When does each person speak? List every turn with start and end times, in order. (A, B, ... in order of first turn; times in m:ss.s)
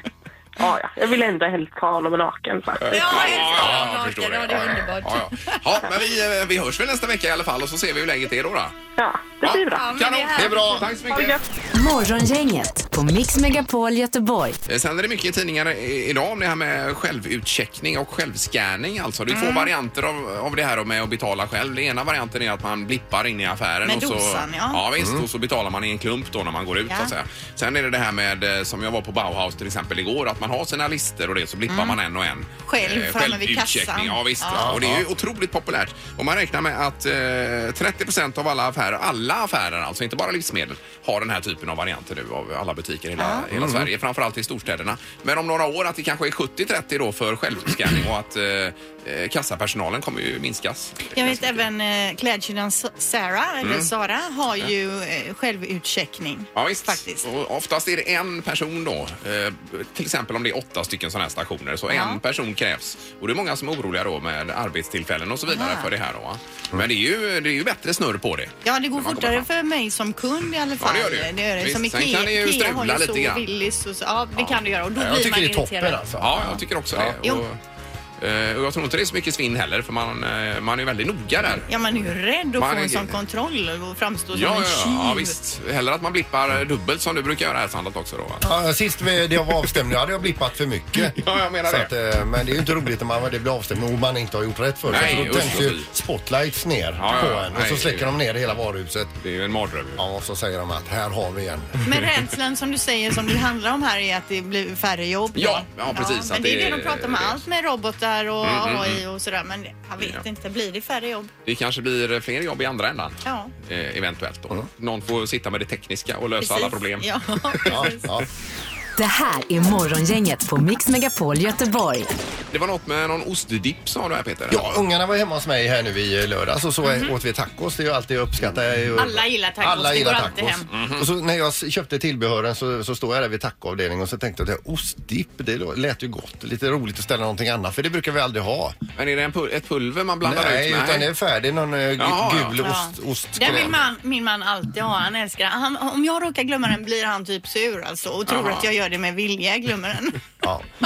0:00.6-0:03.2 A
0:02.8-0:08.7 B
0:02.9-0:05.7 C
0:03.5-0:03.9 D
0:09.0-0:09.9 A
0:09.4-0:11.4 B
0:09.7-0:10.9 C
0:10.4-0:10.9 D
0:11.1-0:11.4 A
0:11.7-0:14.6 E
0:14.7-0:51.6 B
0:19.3-0:19.7 C
0:23.8-0:24.8 C
0:25.0-0:25.2 D
0:31.7-0:32.0 C
0:32.6-0:34.7 C
0:34.6-0:35.1 D
0:43.2-0:43.4 C
0:43.5-0:43.9 D
0:51.1-0:57.2 C
0:53.6-0:53.9 B
0:56.6-1:09.5 B
1:01.9-1:02.2 C
1:05.5-1:05.9 C
1:08.6-1:16.0 C
1:10.8-1:13.4 B
1:15.0-1:17.2 D
1:16.2-1:17.6 B
1:18.2-1:21.8 B
1:21.7-1:25.4 C
1:22.6-1:23.2 B
1:24.3-1:28.4 B
1:28.4-1:39.2 D
1:31.0-1:31.9 B
1:34.9-1:35.9 B
1:37.0-1:38.2 B
1:39.2-1:40.0 B
1:40.0-1:41.8 D
1:41.8-1:51.3 C
1:45.4-1:47.4 B
1:48.4-1:49.0 B
1:51.4-1:57.9 B
1:53.2-1:53.5 C
1:56.4-1:58.0 C
1:57.7-1:58.3 D
1:59.0-2:02.1 E
2:02.5-2:04.7 B
2:04.5-2:18.8 D
2:06.8-2:07.1 C
2:09.0-2:10.7 C
2:10.7-2:11.1 B
2:19.0-2:21.1 B
2:20.2-2:23.8 D
2:22.0-2:22.6 B
2:22.6-2:30.2 C
2:28.3-2:28.7 B